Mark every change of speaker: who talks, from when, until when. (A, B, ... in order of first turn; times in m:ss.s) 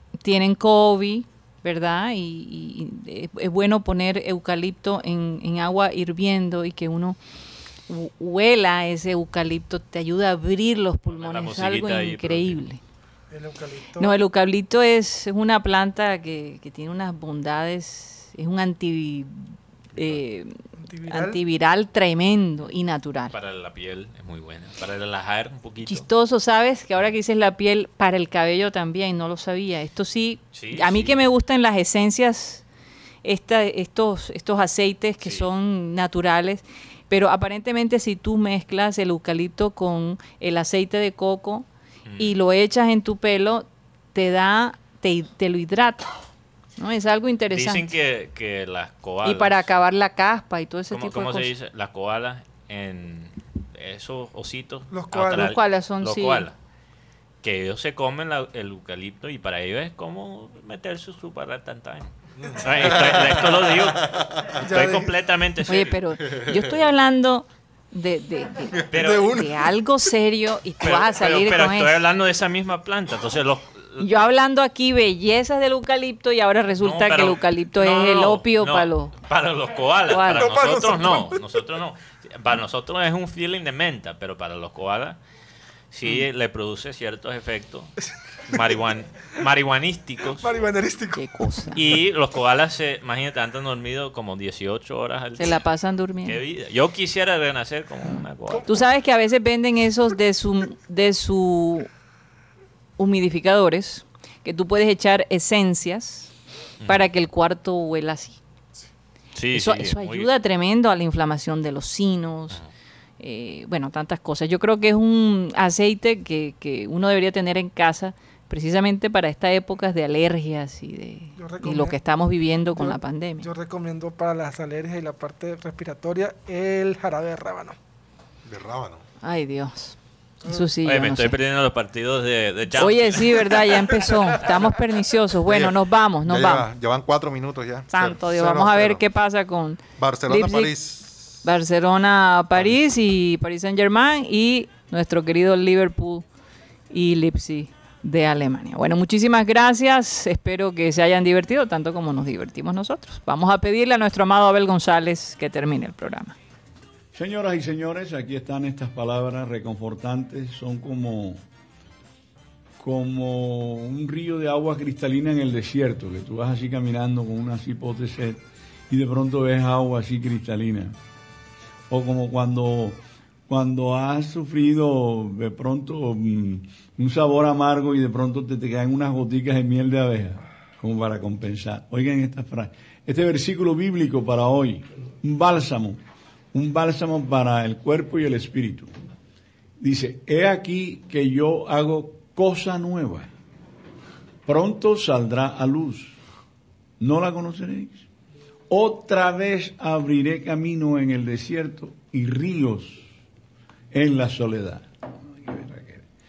0:00.2-0:07.2 A
0:07.9-0:12.8 A
0:11.0-0:12.6 B
0:13.3-0:14.1 C
0:14.0-0:23.4 A
0:20.7-0:21.4 C
0:23.3-0:26.0 B
0:25.8-0:32.6 A
0:30.5-0:31.2 B
0:33.2-0:41.7 A
0:42.0-0:42.3 B
0:42.2-0:46.1 A
0:46.8-0:47.9 A
0:47.5-0:49.7 B
0:49.2-0:51.5 A
0:50.9-0:56.6 B
0:54.9-0:55.5 C
0:55.3-0:56.5 A
0:57.4-1:06.0 B
1:02.4-1:04.7 D
1:04.6-1:05.2 C
1:05.7-1:12.0 A
1:06.3-1:06.7 D
1:08.9-1:09.4 B
1:08.9-1:09.6 C
1:10.8-1:14.0 B
1:14.0-1:19.1 A
1:16.8-1:25.2 B
1:20.1-1:20.5 A
1:20.3-1:21.6 C
1:25.9-1:27.9 B
1:28.5-1:30.5 B
1:30.4-1:31.9 C
1:31.2-1:31.8 A
1:31.7-1:35.6 B
1:35.4-1:36.4 A
1:36.2-1:38.7 B
1:38.6-1:41.9 A
1:43.0-1:46.3 A
1:46.8-1:47.1 B
1:46.9-1:48.4 A
1:49.4-1:50.3 B
1:49.5-1:52.6 A
1:53.2-2:03.5 A
2:01.4-2:02.0 C
2:02.8-2:07.8 C
2:08.4-2:09.0 D
2:09.2-2:11.4 A
2:10.8-2:13.6 B
2:12.7-2:16.7 A
2:15.4-2:19.0 D
2:17.9-2:20.7 A
2:20.0-2:21.4 D
2:21.4-2:26.2 A
2:26.9-2:36.4 A
2:37.1-2:41.4 E
2:42.8-2:51.0 E
2:51.9-3:06.0 E
3:06.5-3:08.9 E
3:09.8-3:13.3 E
3:14.4-3:16.2 E
3:17.0-3:18.0 E
3:18.7-3:23.0 E
3:23.9-3:26.0 E